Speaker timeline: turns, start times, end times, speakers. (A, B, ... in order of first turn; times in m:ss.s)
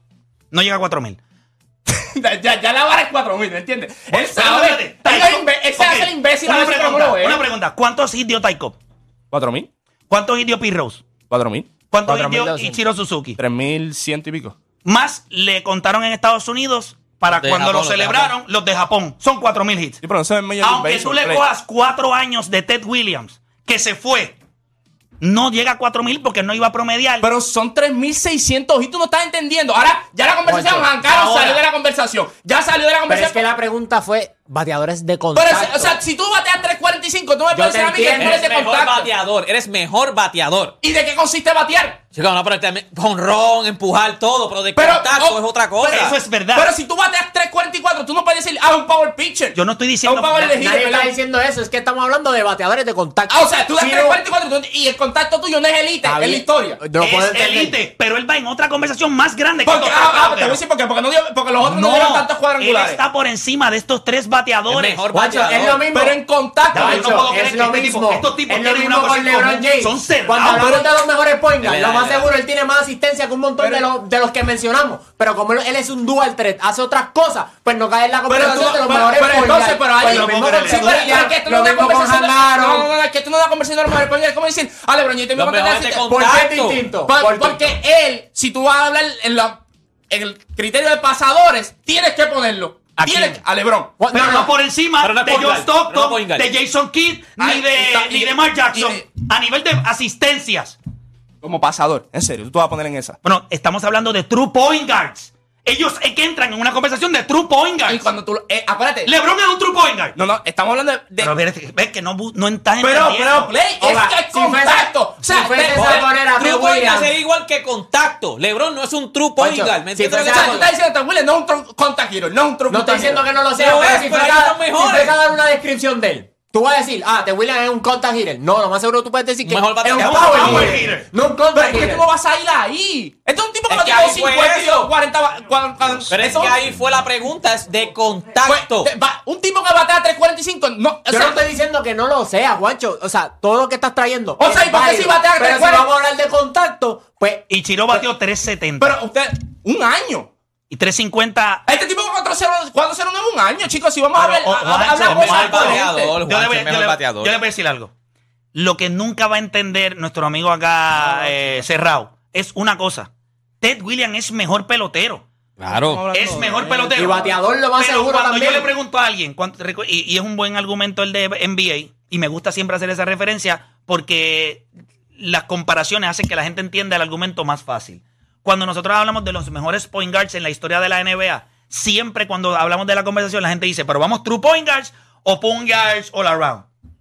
0:00.5-0:01.2 A
0:01.9-0:07.4 B
0:04.1-0:08.8 A
0:09.3-0:09.7 B
0:10.1-0:11.0 A
0:11.3-0:11.7 B
0:11.9-0:13.4 A
0:12.1-0:12.8 C
0:13.4-0:14.6 B
0:14.8-0:20.0 A
0:17.3-0:18.3 D
0:20.0-0:21.5 B
0:20.6-0:24.4 A
0:25.2-0:27.3 A
0:27.2-0:33.4 B
0:30.5-0:30.9 C
0:31.0-0:31.6 A
0:33.1-0:36.0 C
0:35.3-0:39.1 B
0:37.5-0:38.4 C
0:38.1-0:40.8 D
0:40.8-0:42.0 B
0:42.1-0:46.2 D
0:44.8-0:45.4 B
0:45.8-0:46.7 A
0:46.5-0:51.2 B
0:49.5-0:50.6 A
0:50.5-0:54.2 C
0:53.3-0:56.8 B
0:56.0-0:57.8 C
0:57.0-1:00.6 A
0:59.6-1:03.0 B
1:01.6-1:05.0 A
1:04.7-1:05.9 D
1:05.1-1:06.2 C
1:05.9-1:07.3 B
1:06.7-1:22.9 C
1:06.7-1:10.9 A
1:11.6-1:12.3 D
1:13.6-1:13.9 B
1:18.3-1:26.1 B
1:20.0-1:21.2 A
1:25.4-1:26.9 D
1:26.1-1:27.7 C
1:27.1-1:34.0 B
1:33.0-1:33.4 A
1:34.0-1:34.5 C
1:34.1-1:40.8 A
1:35.0-1:36.5 D
1:37.4-1:39.0 B
1:41.4-1:43.2 B
1:43.2-1:48.0 A
1:47.9-1:49.1 B
1:49.0-1:50.2 A
1:50.2-1:51.3 B
1:51.2-1:53.5 A
1:52.8-1:56.1 B
1:53.8-1:57.2 C
1:55.7-2:00.7 D
1:59.4-2:00.6 C
2:00.3-2:03.2 B
2:02.7-2:12.0 C
2:03.5-2:05.2 D
2:09.4-2:10.8 D
2:09.9-2:11.1 A
2:10.3-2:10.8 B
2:11.5-2:16.6 B
2:13.7-2:14.9 D
2:16.1-2:18.9 D
2:18.4-2:21.4 B
2:21.1-2:27.4 C
2:24.4-2:25.9 B
2:27.5-2:29.0 A
2:28.8-2:30.3 B
2:30.7-2:31.6 A
2:31.7-2:36.2 B
2:34.2-2:37.9 A
2:35.0-2:37.4 D
2:38.5-2:43.1 A
2:41.0-2:41.6 B
2:43.6-2:45.2 A
2:45.6-2:46.4 D
2:45.6-2:47.4 B
2:46.1-3:06.7 A
2:46.9-2:48.7 C